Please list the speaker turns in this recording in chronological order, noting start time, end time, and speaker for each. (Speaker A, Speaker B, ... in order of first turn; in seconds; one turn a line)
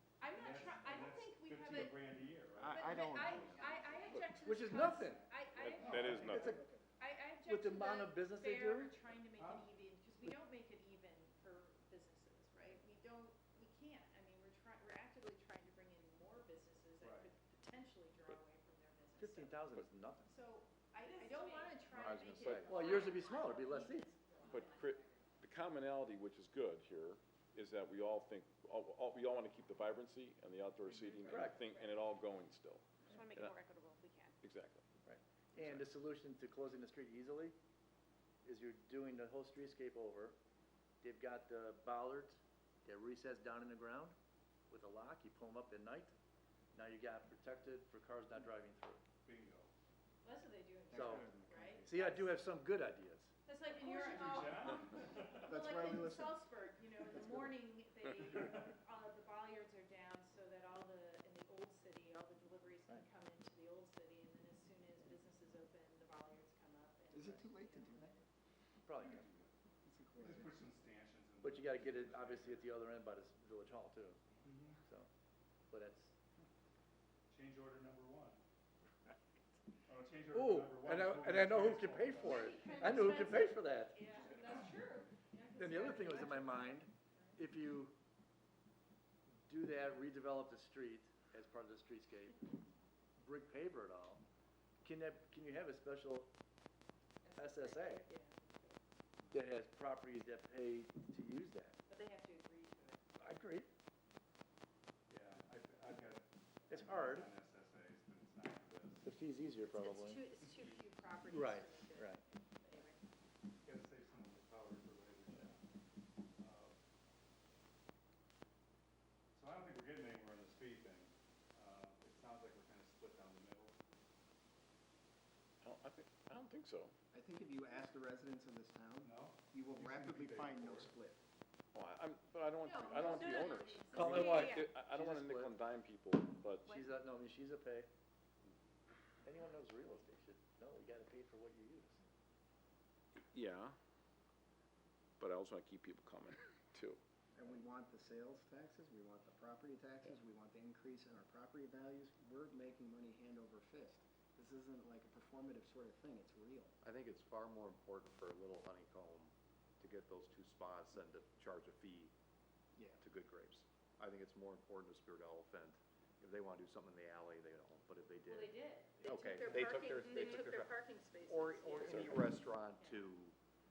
Speaker A: 0.2-19.6
Speaker B: 0.4-4.0
Speaker C: 2.6-3.6
Speaker D: 2.8-3.3
Speaker E: 4.4-5.3
Speaker B: 5.1-6.3
Speaker D: 5.5-6.6
Speaker C: 6.0-6.8
Speaker E: 6.2-6.6
Speaker E: 7.5-8.9
Speaker B: 9.4-9.7
Speaker E: 17.0-17.3
Speaker E: 19.2-20.3
Speaker A: 20.3-24.7
Speaker F: 21.0-21.8
Speaker G: 21.9-22.9
Speaker E: 22.0-24.1
Speaker D: 22.4-22.7
Speaker F: 24.4-25.2
Speaker D: 24.5-33.6
Speaker F: 31.0-31.8
Speaker E: 31.3-31.6
Speaker F: 33.1-34.4
Speaker D: 34.4-34.9
Speaker E: 35.0-37.5
Speaker D: 35.6-35.8
Speaker E: 38.5-40.4
Speaker E: 41.0-44.2
Speaker E: 44.7-46.1
Speaker E: 46.7-49.0
Speaker B: 49.2-49.7
Speaker A: 50.2-52.4
Speaker E: 50.9-51.3
Speaker C: 50.9-51.9
Speaker E: 51.8-53.3
Speaker A: 53.5-68.2
Speaker B: 53.7-55.5
Speaker C: 55.5-56.4
Speaker C: 57.1-57.5
Speaker B: 58.4-58.6
Speaker C: 67.1-68.1
Speaker E: 68.9-69.3
Speaker C: 69.8-70.6
Speaker B: 70.2-72.7
Speaker E: 71.4-74.2
Speaker B: 74.4-74.8
Speaker E: 75.7-76.1
Speaker B: 77.3-78.4
Speaker B: 79.9-82.5
Speaker E: 80.3-84.0
Speaker A: 82.2-87.4
Speaker E: 85.6-87.9
Speaker E: 89.5-92.5
Speaker E: 93.2-94.2
Speaker E: 94.8-96.3
Speaker A: 97.2-98.8
Speaker E: 97.4-98.1
Speaker E: 99.3-101.8
Speaker A: 101.9-103.0
Speaker E: 103.2-103.7
Speaker B: 105.1-109.1
Speaker E: 106.7-107.3
Speaker E: 109.0-110.2
Speaker A: 109.6-113.0
Speaker B: 110.4-111.0
Speaker E: 111.3-112.2
Speaker B: 113.6-115.6
Speaker B: 116.4-116.8
Speaker B: 119.3-123.8
Speaker D: 125.6-126.9
Speaker C: 127.1-131.2
Speaker B: 129.0-130.9
Speaker D: 131.8-136.7
Speaker A: 132.6-134.2
Speaker F: 133.1-134.7
Speaker E: 133.9-135.6
Speaker E: 136.7-137.9
Speaker E: 139.2-142.0
Speaker D: 143.2-143.8
Speaker D: 145.2-147.0
Speaker C: 147.3-156.7
Speaker G: 156.8-162.1
Speaker G: 163.0-173.4
Speaker A: 168.2-173.1
Speaker F: 170.0-170.4